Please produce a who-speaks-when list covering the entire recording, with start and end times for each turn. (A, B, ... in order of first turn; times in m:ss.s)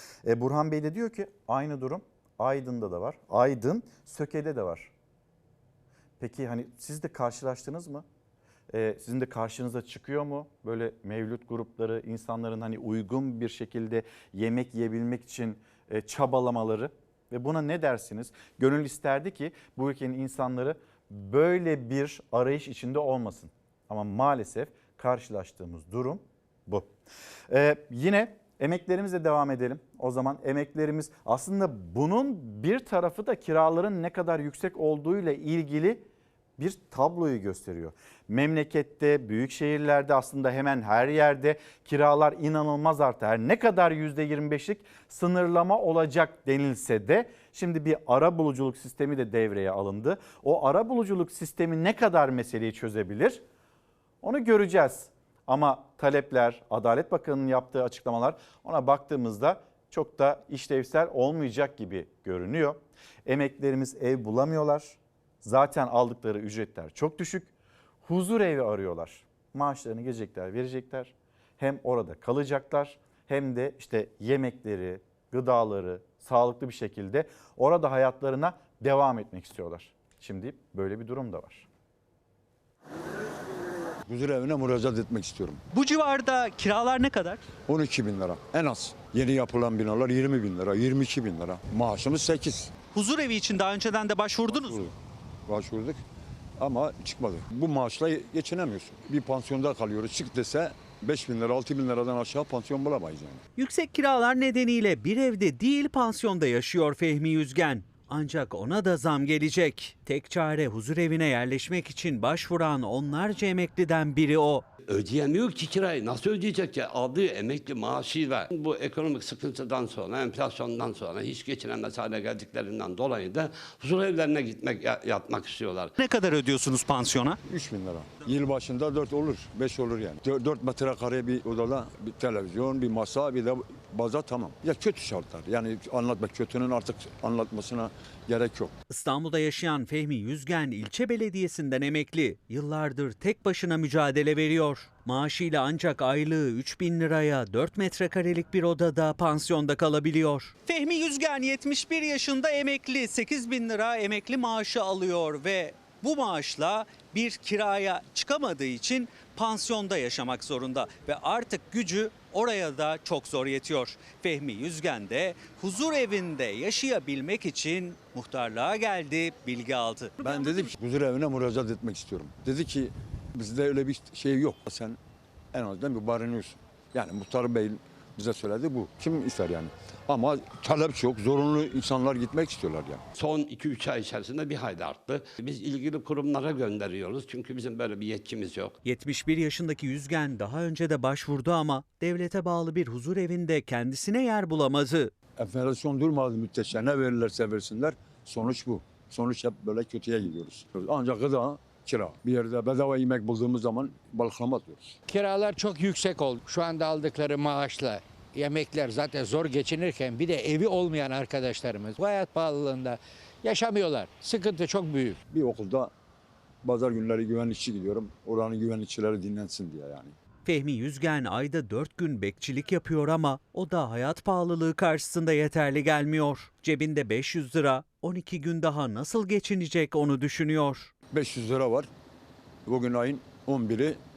0:00.2-0:04.9 A
0:06.2-0:08.0 A
0:08.7-0:26.9 A
0:27.5-0:36.0 A
0:36.6-0:53.4 A
0:54.2-1:07.5 A
1:08.0-1:21.7 A
1:24.1-1:25.6 B
1:25.7-1:27.4 C
1:27.7-1:32.7 B
1:32.9-1:34.8 C
1:34.5-1:34.9 B
1:35.5-1:36.0 B
1:36.6-1:43.4 B
1:43.6-1:54.6 C
1:54.9-2:05.9 D
2:06.0-2:07.4 C
2:07.5-2:18.7 B
2:18.9-2:50.6 C
2:50.2-2:55.0 B
2:55.5-3:03.0 B
3:03.2-3:08.8 D
3:08.8-3:15.2 C
3:15.4-3:25.0 B
3:25.1-3:35.2 E
3:35.3-3:35.9 B
3:36.6-3:40.2 B
3:40.4-3:50.9 C
3:51.1-3:51.9 B
3:52.7-3:54.0 B